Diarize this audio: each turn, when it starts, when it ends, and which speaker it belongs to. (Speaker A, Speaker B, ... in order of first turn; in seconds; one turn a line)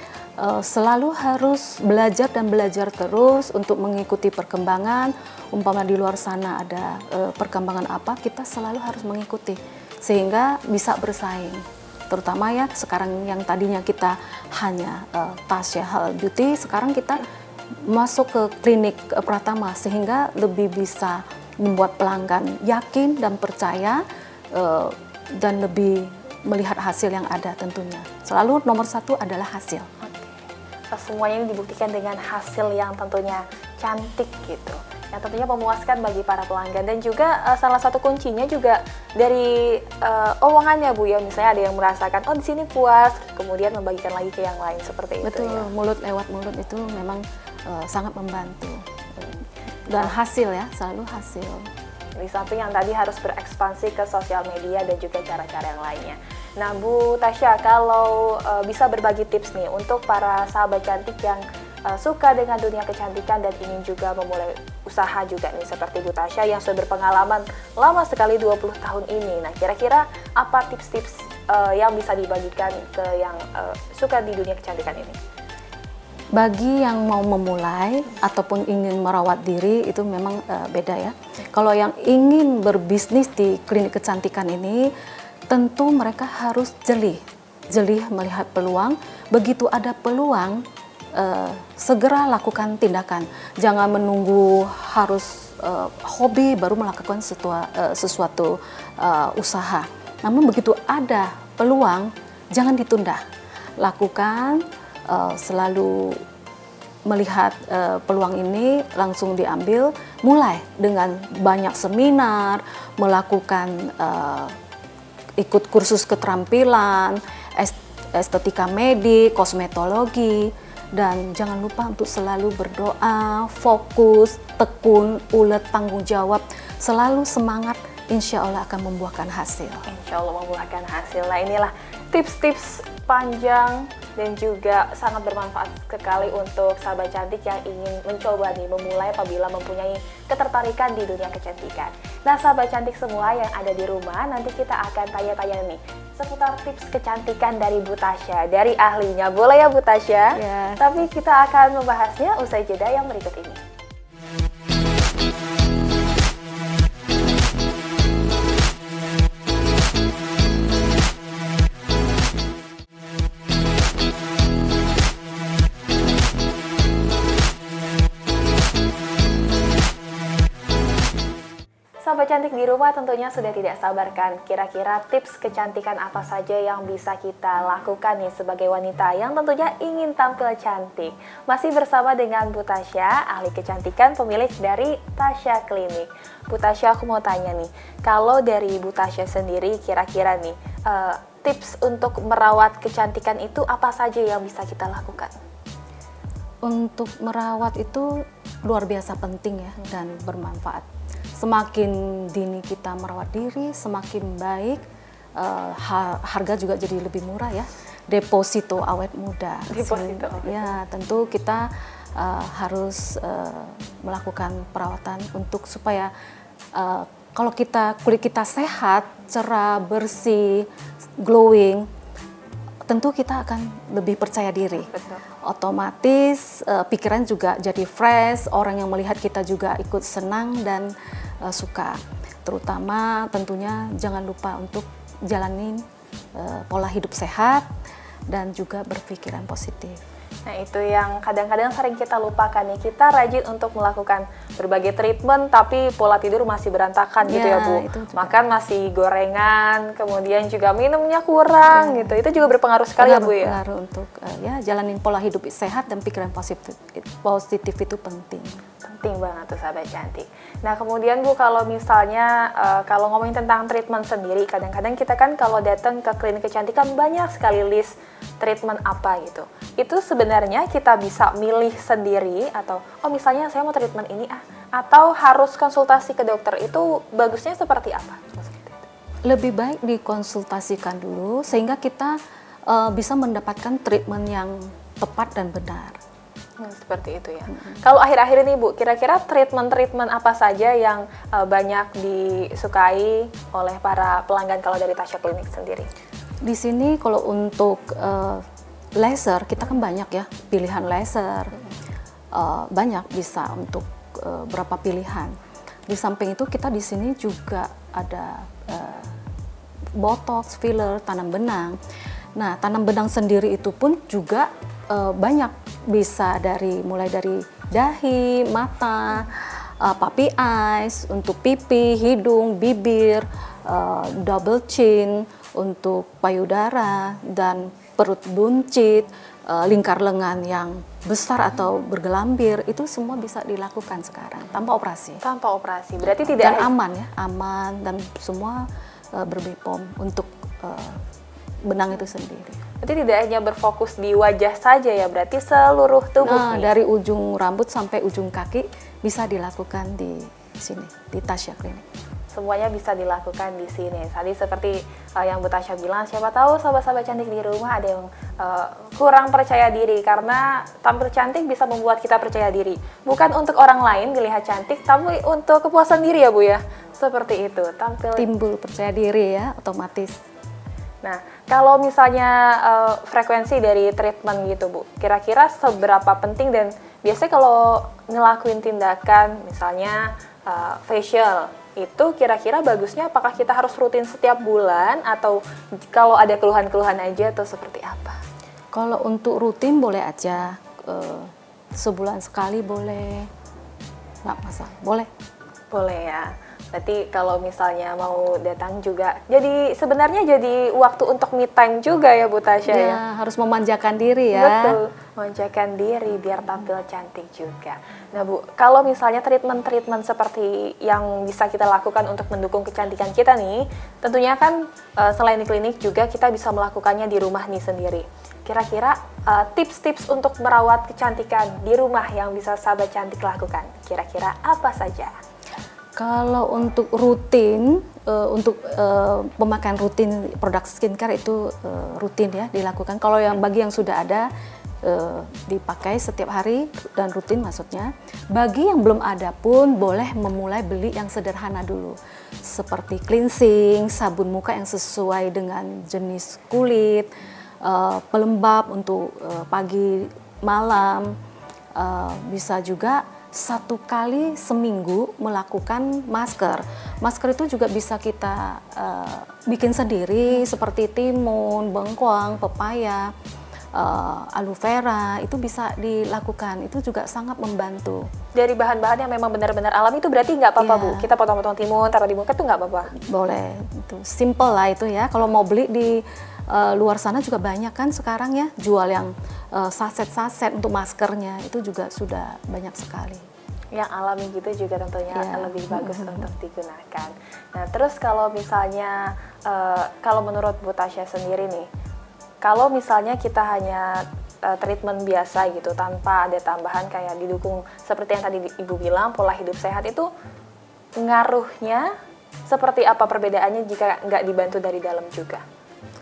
Speaker A: 0.4-17.2
Speaker A: 17.9-29.9
Speaker B: 30.0-45.7
Speaker A: 45.2-51.7
Speaker B: 49.9-50.1
Speaker B: 52.2-75.2
Speaker A: 76.4-84.9
Speaker A: 85.5-90.6
Speaker A: 91.2-103.2
Speaker A: 103.8-106.2
Speaker A: 107.1-114.6
Speaker A: 115.4-129.9
Speaker B: 129.9-153.6
Speaker A: 150.3-151.1
Speaker B: 172.0-195.4
Speaker A: 196.6-204.8
Speaker A: 205.4-216.1
Speaker B: 209.7-210.7
Speaker A: 216.7-220.7
Speaker A: 221.2-221.9
Speaker A: 222.9-235.8
Speaker B: 224.8-225.2
Speaker A: 236.3-237.7
Speaker A: 238.3-240.0
Speaker B: 240.5-253.6
Speaker A: 247.2-248.3
Speaker A: 251.7-252.2
Speaker A: 253.0-258.6
Speaker B: 258.8-278.9
Speaker A: 279.3-286.0
Speaker B: 286.6-295.9
Speaker A: 296.4-298.5
Speaker A: 299.0-301.6
Speaker A: 302.3-305.4
Speaker A: 305.9-309.2
Speaker A: 310.0-311.8
Speaker A: 312.4-335.2
Speaker B: 335.2-336.7
Speaker A: 336.0-341.0
Speaker A: 341.7-342.6
Speaker B: 342.8-346.7
Speaker A: 346.2-351.9
Speaker B: 352.3-368.3
Speaker A: 368.2-370.2
Speaker B: 371.0-388.2
Speaker A: 388.7-393.3
Speaker A: 394.2-395.1
Speaker B: 395.7-403.0
Speaker A: 402.7-404.8
Speaker B: 404.3-425.1
Speaker A: 426.0-434.3
Speaker A: 434.8-447.1
Speaker A: 447.6-451.1
Speaker A: 451.8-463.1
Speaker A: 463.7-468.1
Speaker B: 468.4-472.9
Speaker A: 470.6-471.1
Speaker A: 472.9-483.3
Speaker B: 483.8-491.7
Speaker A: 485.1-486.3
Speaker B: 492.4-500.1
Speaker B: 501.0-501.9
Speaker B: 502.5-505.4